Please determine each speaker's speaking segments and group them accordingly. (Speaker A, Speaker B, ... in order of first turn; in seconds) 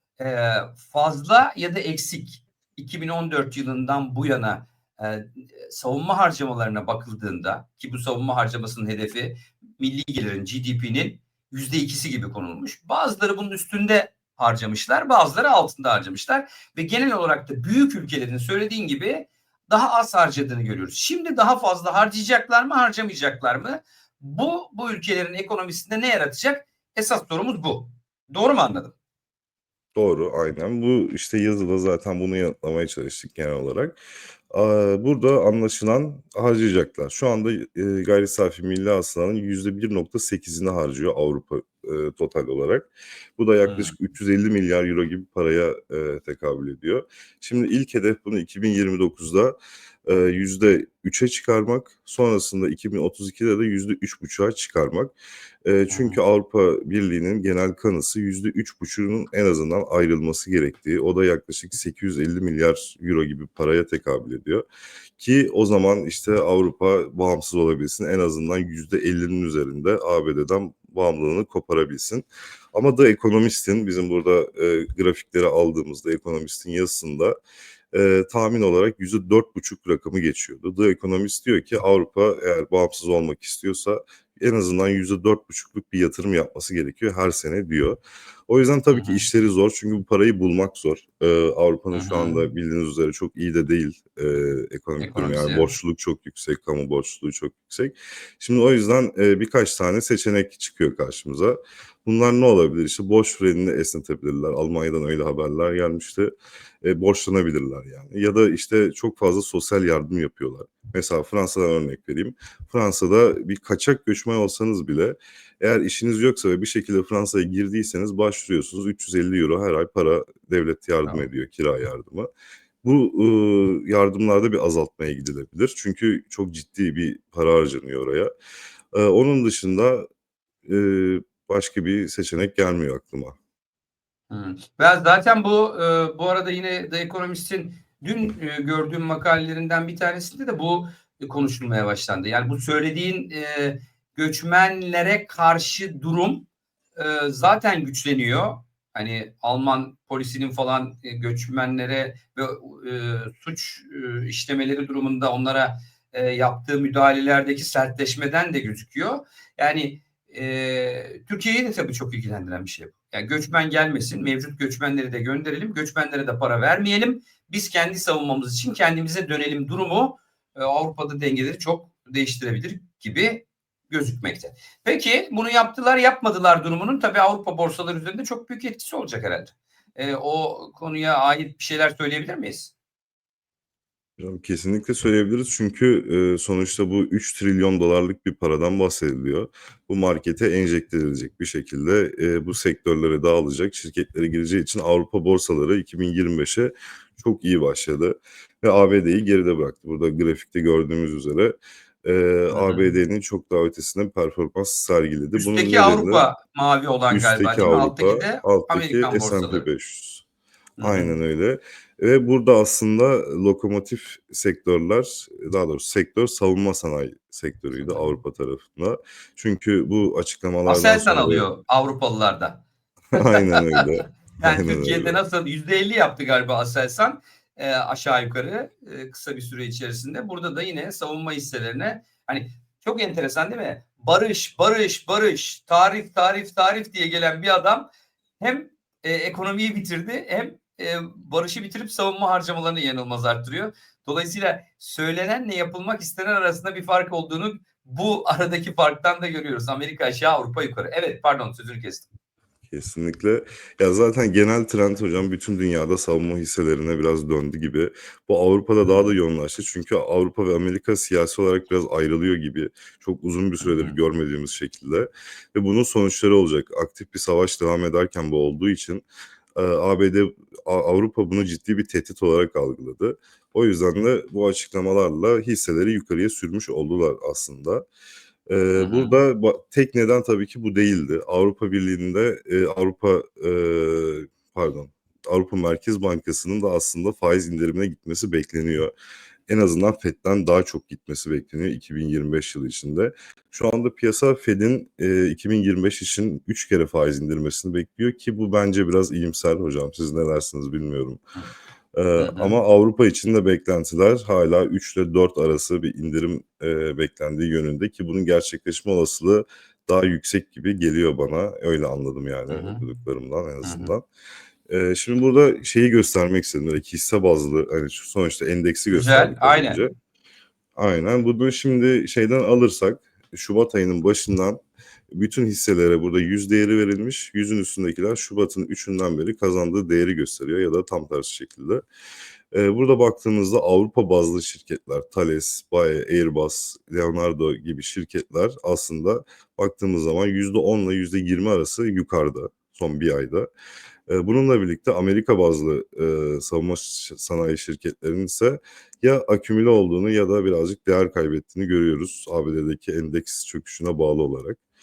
Speaker A: 0.2-28.9, 43.7-44.0, 55.9-56.2, 88.9-89.3, 91.9-92.5, 95.0-95.7, 134.3-182.7, 202.5-202.9, 205.4-209.7, 210.8-211.1, 217.7-218.2, 220.7-222.6, 223.2-237.9, 238.4-252.1, 258.9-259.1, 263.6-264.0, 278.8-279.2, 302.2-302.6, 312.5-312.8, 313.6-313.9, 318.9-319.8
Speaker B: 29.9-34.0, 34.5-55.1, 55.6-64.7, 65.2-77.4, 77.9-106.3, 106.8-122.3, 122.8-128.3, 128.9-130.1, 130.7-133.3, 184.2-206.3, 207.1-210.2, 210.8-221.5, 223.1-225.2, 252.7-269.0, 269.6-277.8, 278.5-288.9, 289.5-301.2, 301.9-314.0, 314.7-319.9, 320.8-324.6, 325.1-331.8, 332.5-343.5, 344.1-354.6